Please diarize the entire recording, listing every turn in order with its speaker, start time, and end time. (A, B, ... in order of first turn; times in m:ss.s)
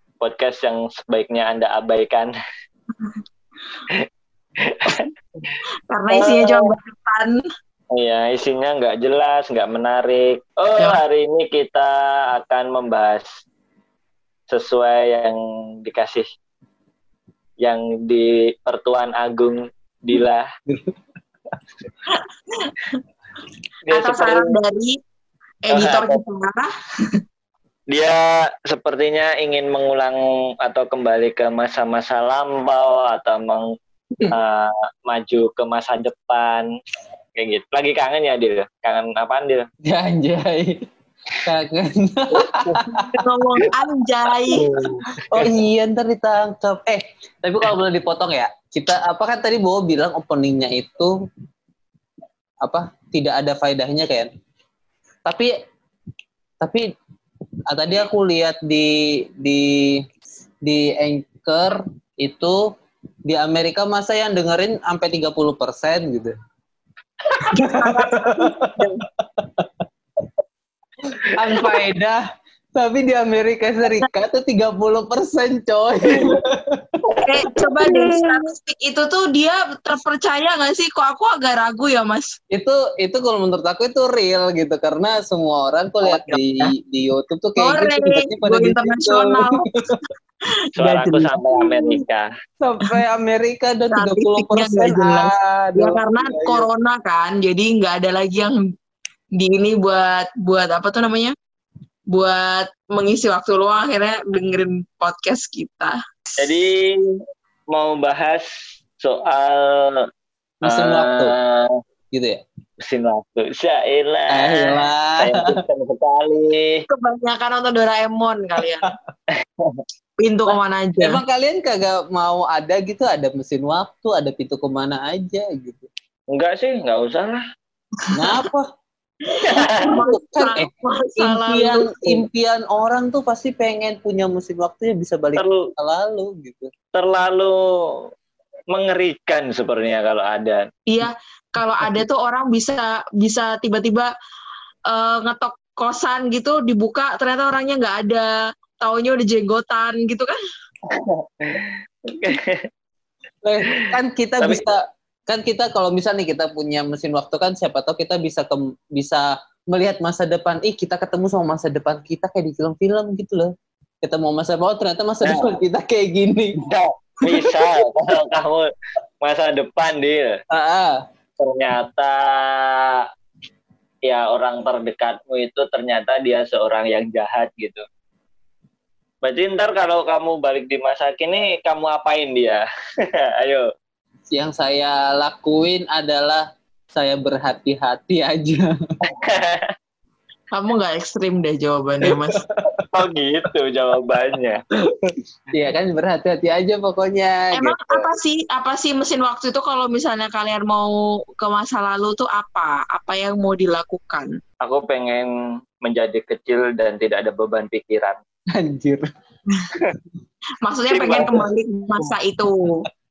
0:00.2-0:02.3 A
0:04.6-0:05.6 A
0:05.9-0:07.4 B
0:06.1-0:06.7 A
0:07.9-0:13.4 A
0:14.5-0:16.3 A
0:17.6-0:20.5 A
0:20.7-0:20.9 C
0:22.1-0:23.0 B
0:23.9-0:24.6 A
0:23.9-0:25.0 B
0:25.6-0:26.7 B
0:25.7-0:26.2 A
0:27.9-0:33.6 A
0:34.3-0:36.7 A
0:37.4-0:39.6 A
0:39.8-0:40.8 C
0:41.4-0:43.2 C
0:42.4-0:42.8 A
0:42.9-0:44.6 B
0:44.5-0:45.5 A
0:45.3-0:51.1 C
0:52.6-0:54.3 C
0:55.2-0:55.5 C
0:56.6-0:56.9 C
0:57.7-1:00.0 C
1:00.6-1:02.7 C
1:03.3-1:06.3 C
1:07.4-1:09.0 B
1:07.6-1:09.8 C
1:11.2-1:11.7 A
1:11.3-1:12.2 C
1:12.7-1:16.9 C
1:17.2-1:22.4 B
1:17.8-1:18.1 C
1:22.5-1:30.0 C
1:26.0-1:26.7 B
1:27.6-1:29.7 B
1:30.8-1:32.0 B
1:30.8-1:32.3 A
1:32.6-1:36.7 C
1:33.9-1:38.6 B
1:39.4-1:41.3 B
1:42.1-1:46.6 B
1:46.4-1:47.2 A
1:47.7-1:48.5 A
1:49.0-1:50.1 A
1:50.6-1:51.3 C
1:50.6-1:51.8 A
1:52.1-1:52.4 C
1:52.8-1:56.8 A
1:54.3-1:55.6 C
1:56.9-1:58.9 B
1:59.3-1:59.8 A
2:00.2-2:01.2 B
2:01.0-2:05.9 C
2:06.3-2:07.4 A
2:08.1-2:08.4 B
2:08.1-2:08.7 C
2:09.3-2:12.2 B
2:09.4-2:09.9 A
2:09.7-2:16.7 C
2:15.4-2:15.7 A
2:16.9-2:18.1 A
2:18.7-2:20.6 A
2:20.9-2:24.1 B
2:24.9-2:30.4 B
2:30.9-2:32.7 A
2:33.4-2:46.6 C
2:33.7-2:34.6 A
2:45.2-2:45.5 A
2:46.6-2:48.7 A
2:47.2-2:47.7 C
2:49.2-2:50.4 A
2:50.5-2:51.0 C
2:51.4-2:53.1 A
2:54.0-2:57.8 A
2:59.2-3:03.7 A
3:04.3-3:08.7 C
3:09.1-3:09.7 A
3:10.5-3:12.4 B
3:12.0-3:12.9 C
3:12.9-3:14.6 A
3:14.8-3:18.1 C
3:17.5-3:24.3 B
3:24.6-3:28.2 A
3:28.5-3:29.0 C
3:30.6-3:32.9 B
3:30.9-3:31.4 A